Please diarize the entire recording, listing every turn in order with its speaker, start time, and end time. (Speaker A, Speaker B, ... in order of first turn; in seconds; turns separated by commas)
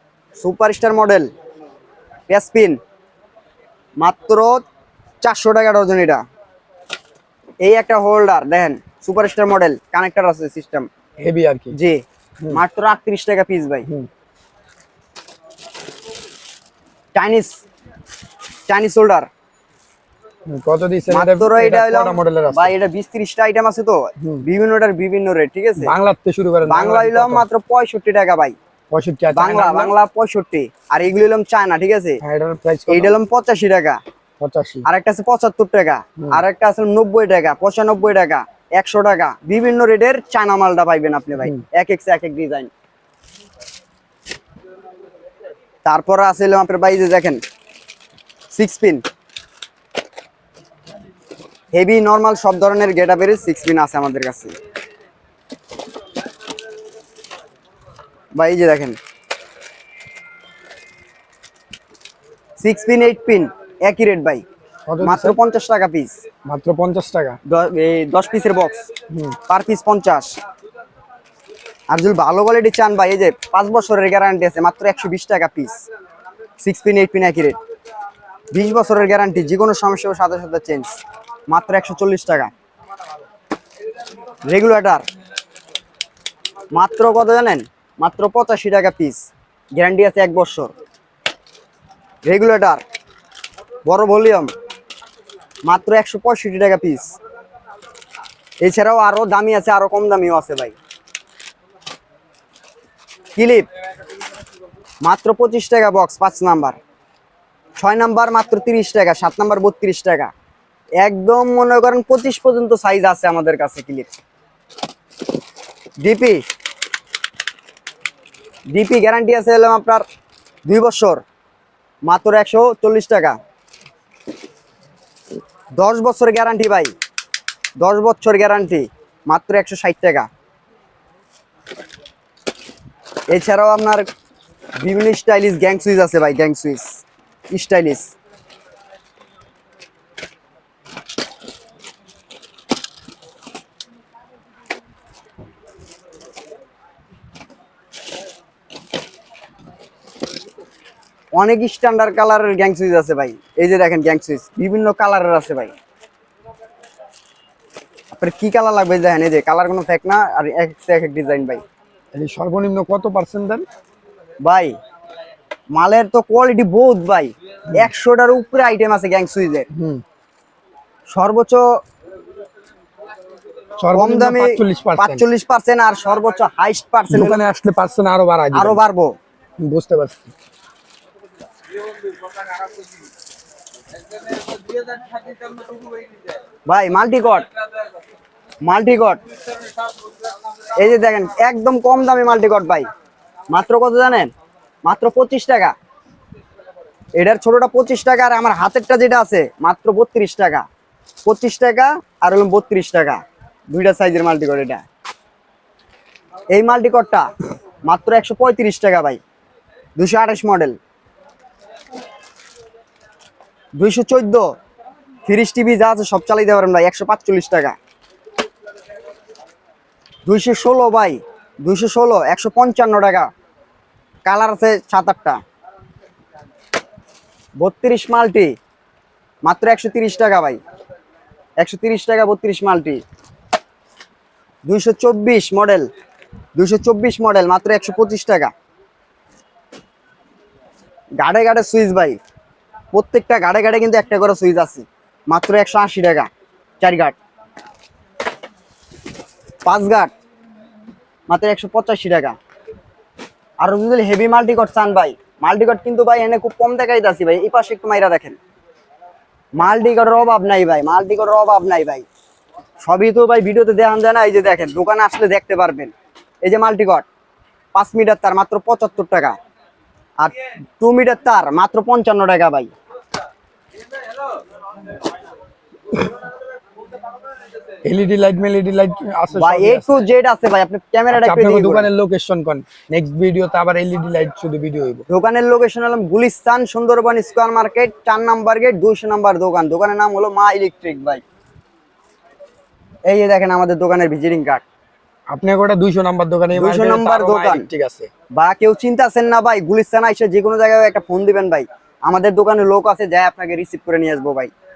Speaker A: 0.4-1.3, Speaker A: 2.3-2.8, Speaker A: 4.0-4.6, Speaker A: 5.2-6.2, Speaker A: 7.6-10.9, Speaker B: 11.2-11.8, Speaker A: 11.7-13.8, Speaker A: 17.1-17.6, Speaker A: 18.7-19.3, Speaker B: 20.5-22.7, Speaker A: 21.1-25.9, Speaker B: 24.2-24.4, Speaker B: 25.8-27.4, Speaker A: 26.7-28.5, Speaker B: 28.9-29.9, Speaker A: 29.3-32.2, Speaker B: 32.2-33.1, Speaker A: 32.9-34.0, Speaker B: 34.4-34.9, Speaker A: 34.8-42.7, Speaker A: 45.8-47.4, Speaker A: 48.5-49.0, Speaker A: 51.7-54.5, Speaker A: 58.4-59.0, Speaker A: 62.6-64.4, Speaker B: 64.9-65.4, Speaker A: 65.0-66.2, Speaker B: 66.5-67.4, Speaker A: 67.5-68.8, Speaker B: 69.1-69.4, Speaker A: 69.5-70.3, Speaker A: 71.9-75.8, Speaker A: 76.6-77.6, Speaker A: 78.5-81.0, Speaker A: 81.5-82.5, Speaker A: 84.5-85.0, Speaker A: 86.7-90.7, Speaker A: 92.2-92.8, Speaker A: 93.8-94.5, Speaker A: 95.7-97.1, Speaker A: 98.6-100.7, Speaker A: 103.3-103.7, Speaker A: 105.0-106.8, Speaker A: 107.8-110.3, Speaker A: 111.0-114.1, Speaker A: 116.0-116.4, Speaker A: 118.7-120.0, Speaker A: 120.7-121.2, Speaker A: 122.0-123.4, Speaker A: 125.8-126.9, Speaker A: 127.8-130.3, Speaker A: 133.3-134.0, Speaker A: 134.8-138.1, Speaker A: 151.3-155.7, Speaker A: 158.1-161.6, Speaker B: 162.1-163.6, Speaker A: 164.4-164.7, Speaker A: 165.7-169.7, Speaker B: 169.7-170.0, Speaker A: 171.1-171.6, Speaker B: 173.8-175.2, Speaker A: 173.9-177.4, Speaker B: 177.1-178.8, Speaker A: 178.5-179.1, Speaker B: 179.6-180.3, Speaker A: 186.7-187.5, Speaker A: 188.6-189.2, Speaker A: 190.7-192.9, Speaker A: 193.5-194.3, Speaker A: 194.8-195.7, Speaker A: 197.2-200.7, Speaker A: 201.2-204.8, Speaker A: 206.5-207.3, Speaker A: 207.9-209.2, Speaker A: 210.0-210.8, Speaker A: 213.8-214.5, Speaker A: 215.2-217.8, Speaker A: 220.2-223.3, Speaker A: 224.2-225.4, Speaker A: 227.6-228.5, Speaker A: 229.4-230.6, Speaker A: 231.6-233.0, Speaker A: 234.7-235.9, Speaker A: 236.6-238.5, Speaker A: 241.2-242.2, Speaker A: 242.9-246.3, Speaker A: 246.8-247.1, Speaker A: 249.6-250.1, Speaker A: 251.3-252.4, Speaker A: 253.6-258.4, Speaker A: 259.6-262.0, Speaker A: 262.8-265.9, Speaker A: 266.4-267.1, Speaker A: 267.7-269.4, Speaker A: 270.2-272.7, Speaker B: 277.8-279.9, Speaker A: 279.3-281.9, Speaker B: 281.1-285.1, Speaker A: 285.1-291.2, Speaker A: 293.1-294.6, Speaker B: 295.3-298.1, Speaker A: 296.5-297.6, Speaker A: 298.4-304.5